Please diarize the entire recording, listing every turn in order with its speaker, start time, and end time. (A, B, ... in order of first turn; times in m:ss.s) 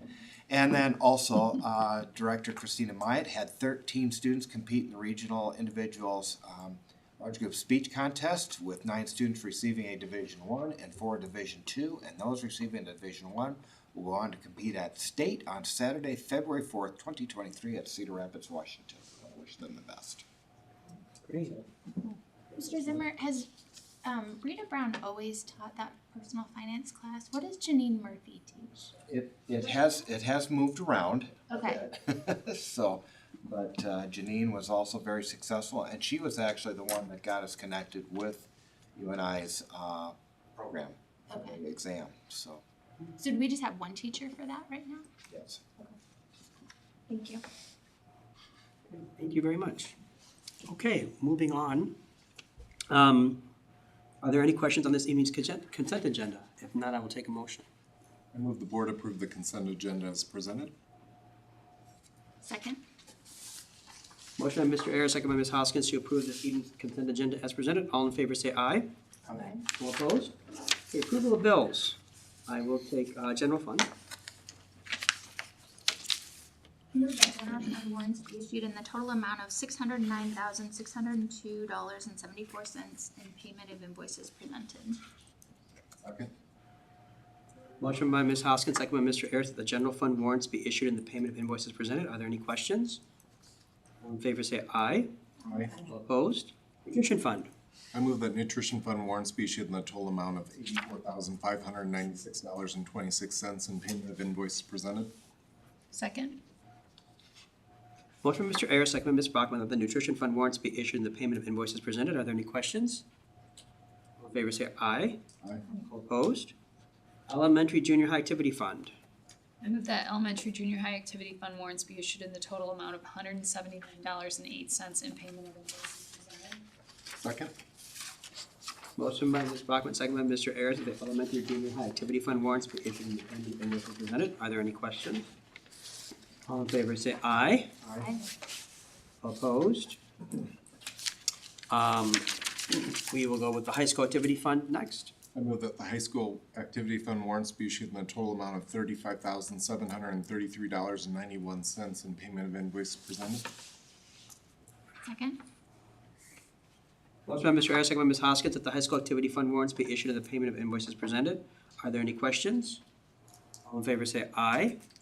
0:00.5-0:20.2 A
0:21.2-0:21.6 B
0:22.0-0:23.5 C
0:24.0-0:28.9 C
0:29.1-0:42.6 A
0:31.5-0:31.8 C
0:41.3-0:41.6 C
0:43.2-0:45.1 C
0:45.3-0:45.6 A
0:47.1-0:47.4 C
0:48.9-0:49.9 B
0:50.7-0:51.9 B
0:52.9-0:53.4 B
0:54.2-0:57.6 B
0:58.3-1:00.7 D
1:02.4-1:02.8 C
1:04.4-1:08.9 B
1:09.7-1:10.3 B
1:10.9-1:13.9 B
1:16.9-1:25.0 C
1:26.0-1:26.3 D
1:27.8-1:33.0 B
1:34.0-1:35.1 B
1:35.4-1:35.8 C
1:35.5-1:35.8 D
1:35.8-1:37.5 B
1:37.9-1:45.1 D
1:45.9-1:46.4 E
1:48.2-1:53.0 B
1:54.2-1:55.2 B
1:55.8-1:56.5 B
1:57.3-1:58.9 B
1:59.6-2:06.6 E
2:07.2-2:07.5 D
2:09.0-2:15.3 B
2:16.5-2:17.7 B
2:18.0-2:18.3 C
2:19.2-2:20.0 B
2:21.7-2:25.1 B
2:25.3-2:33.5 D
2:35.0-2:35.4 C
2:37.3-2:42.8 B
2:43.7-2:44.8 B